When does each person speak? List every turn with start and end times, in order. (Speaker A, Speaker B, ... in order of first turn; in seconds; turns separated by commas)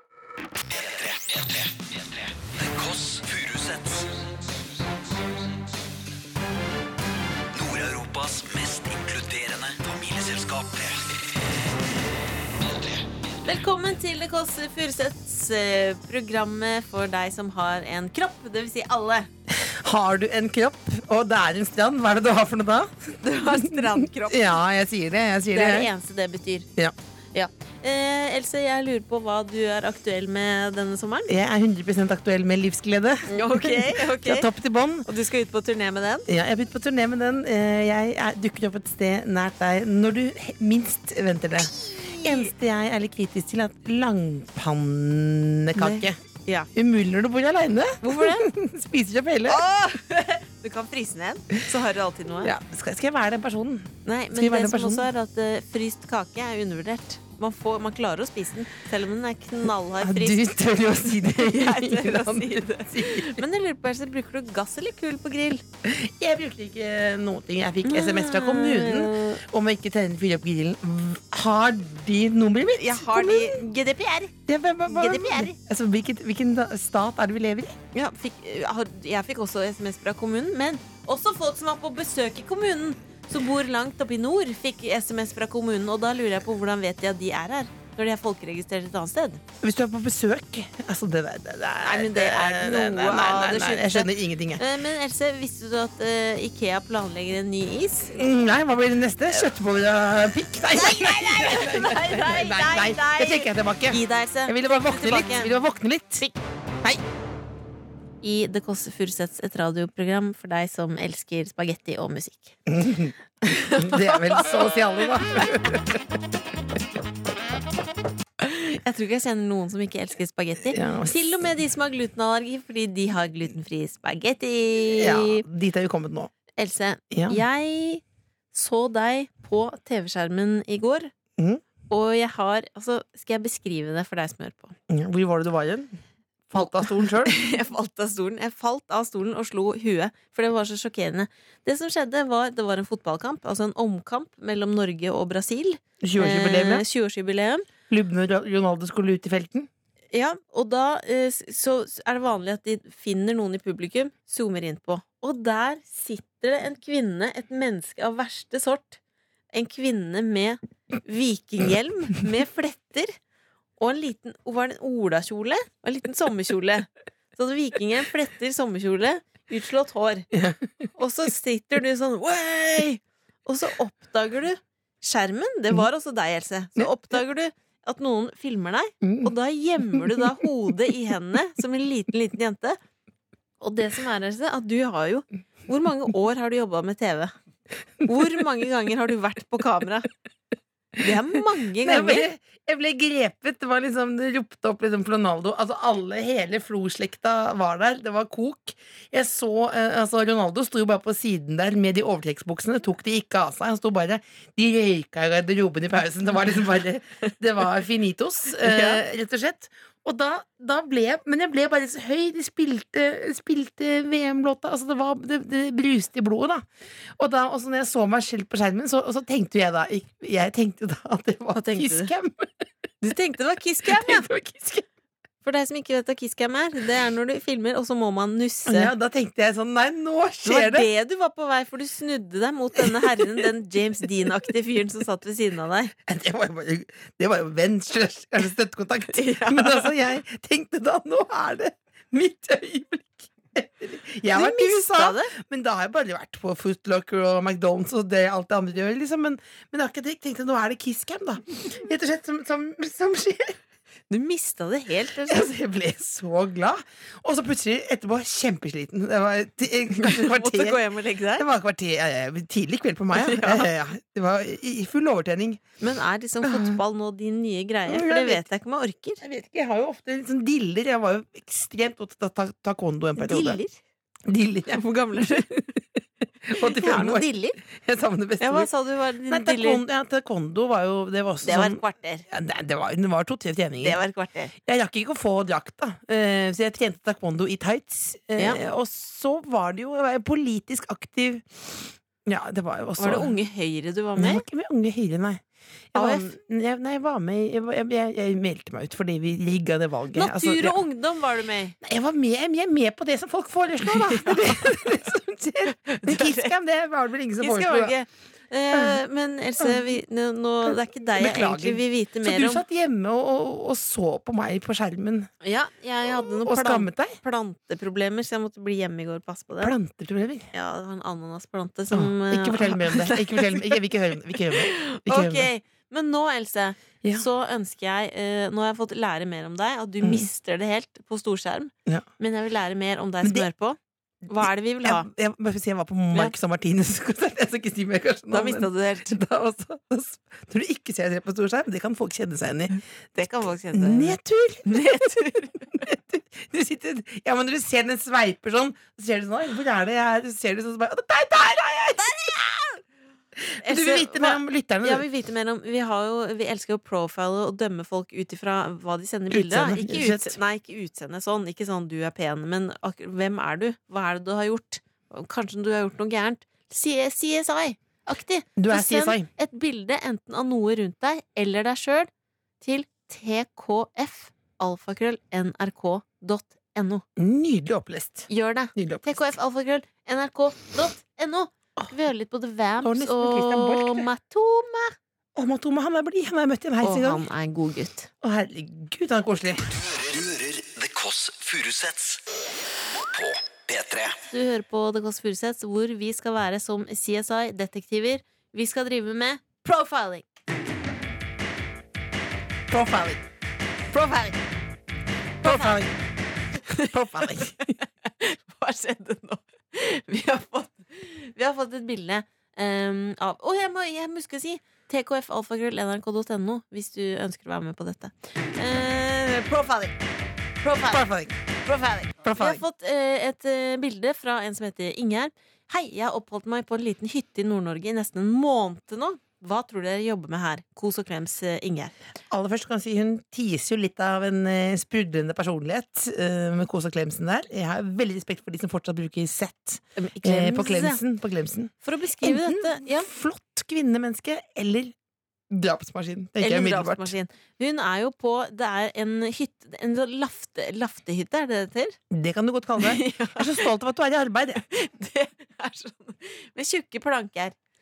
Speaker A: 0.7-4.1, Speaker A: 7.5-11.1, Speaker A: 12.6-13.0, Speaker B: 13.4-19.3, Speaker C: 19.5-25.9, Speaker B: 23.2-24.6, Speaker B: 25.5-26.7, Speaker B: 27.3-31.3, Speaker C: 31.3-35.1, Speaker B: 33.3-34.5, Speaker B: 35.0-36.3, Speaker C: 36.3-46.2, Speaker B: 41.8-42.5, Speaker B: 45.8-46.7, Speaker C: 46.7-49.6, Speaker B: 48.0-48.5, Speaker B: 49.5-52.5, Speaker C: 52.4-55.1, Speaker B: 54.1-60.5, Speaker C: 60.0-63.4, Speaker B: 61.1-65.6, Speaker C: 65.8-73.6, Speaker B: 67.8-69.4, Speaker B: 72.7-74.3, Speaker C: 74.5-77.8, Speaker B: 74.9-75.6, Speaker B: 77.9-89.4, Speaker C: 89.6-94.6, Speaker B: 91.8-98.2, Speaker C: 98.1-106.3, Speaker B: 100.7-105.5, Speaker B: 108.2-112.6, Speaker C: 112.7-116.0, Speaker B: 113.5-115.5, Speaker B: 118.4-125.4, Speaker C: 120.7-121.4, Speaker C: 124.9-126.3, Speaker B: 126.6-131.1, Speaker C: 127.1-127.4, Speaker C: 131.4-131.6, Speaker B: 131.9-134.8, Speaker C: 134.9-136.0, Speaker C: 136.5-137.4, Speaker B: 136.6-147.7, Speaker C: 146.0-146.8, Speaker C: 147.9-149.7, Speaker B: 150.1-159.0, Speaker B: 159.5-163.2, Speaker B: 163.8-170.3, Speaker C: 170.3-170.8, Speaker B: 170.9-182.8, Speaker C: 179.0-179.3, Speaker C: 179.9-180.5, Speaker B: 183.6-187.3, Speaker B: 188.0-190.1, Speaker B: 191.0-192.3, Speaker C: 191.8-216.6, Speaker B: 208.6-209.0, Speaker C: 217.2-222.5, Speaker B: 221.6-222.1, Speaker B: 223.0-224.3, Speaker C: 223.8-224.9, Speaker B: 225.4-228.9, Speaker C: 228.7-230.9, Speaker B: 230.4-235.9, Speaker C: 232.8-233.3, Speaker C: 236.1-253.6, Speaker B: 239.1-239.9, Speaker B: 244.3-245.3, Speaker B: 254.1-255.5, Speaker C: 255.3-260.8, Speaker B: 259.9-261.5, Speaker C: 261.4-265.6, Speaker B: 263.1-263.7, Speaker B: 265.8-269.2, Speaker C: 266.4-266.8, Speaker C: 267.9-268.4, Speaker C: 269.2-273.6, Speaker B: 273.2-273.8, Speaker C: 274.2-275.8, Speaker B: 274.7-275.7, Speaker C: 276.4-278.7, Speaker B: 276.6-277.6, Speaker B: 278.4-279.8, Speaker C: 279.3-284.0, Speaker B: 281.4-282.2, Speaker B: 283.8-284.5, Speaker C: 284.6-293.4, Speaker B: 293.0-294.4, Speaker C: 294.2-300.8, Speaker B: 295.9-296.3, Speaker B: 300.1-301.8, Speaker C: 301.8-308.0, Speaker B: 303.9-304.9, Speaker B: 305.7-306.5, Speaker B: 307.4-312.6, Speaker C: 308.7-309.0, Speaker C: 309.6-309.9, Speaker C: 310.6-315.3, Speaker B: 315.4-319.8, Speaker C: 316.4-317.2, Speaker C: 319.6-320.5, Speaker B: 320.5-323.8, Speaker C: 321.9-325.5, Speaker B: 324.3-335.1, Speaker C: 330.0-330.3, Speaker C: 333.2-333.5, Speaker C: 334.4-342.8, Speaker B: 338.3-339.2, Speaker B: 343.1-345.9, Speaker C: 343.7-352.6, Speaker C: 353.4-355.1, Speaker B: 353.6-372.1, Speaker C: 359.3-360.4, Speaker C: 368.6-369.3, Speaker B: 372.6-377.0, Speaker C: 377.2-379.3, Speaker B: 378.3-384.9, Speaker C: 382.8-384.1, Speaker C: 385.4-387.2, Speaker B: 386.8-388.1, Speaker C: 388.2-389.7, Speaker A: 389.7-392.2, Speaker A: 393.1-394.2, Speaker B: 394.3-400.2, Speaker C: 402.7-403.2, Speaker B: 403.9-404.4, Speaker B: 405.4-405.9, Speaker C: 405.4-405.9, Speaker B: 406.6-419.9, Speaker C: 406.7-407.7, Speaker B: 420.6-421.1, Speaker C: 420.9-421.4, Speaker B: 421.6-431.9, Speaker C: 422.2-422.6, Speaker C: 432.3-444.9, Speaker B: 440.0-441.0, Speaker B: 441.8-443.1, Speaker C: 445.5-447.1, Speaker B: 446.4-452.0, Speaker C: 452.1-454.6, Speaker B: 452.8-453.7, Speaker B: 454.6-457.6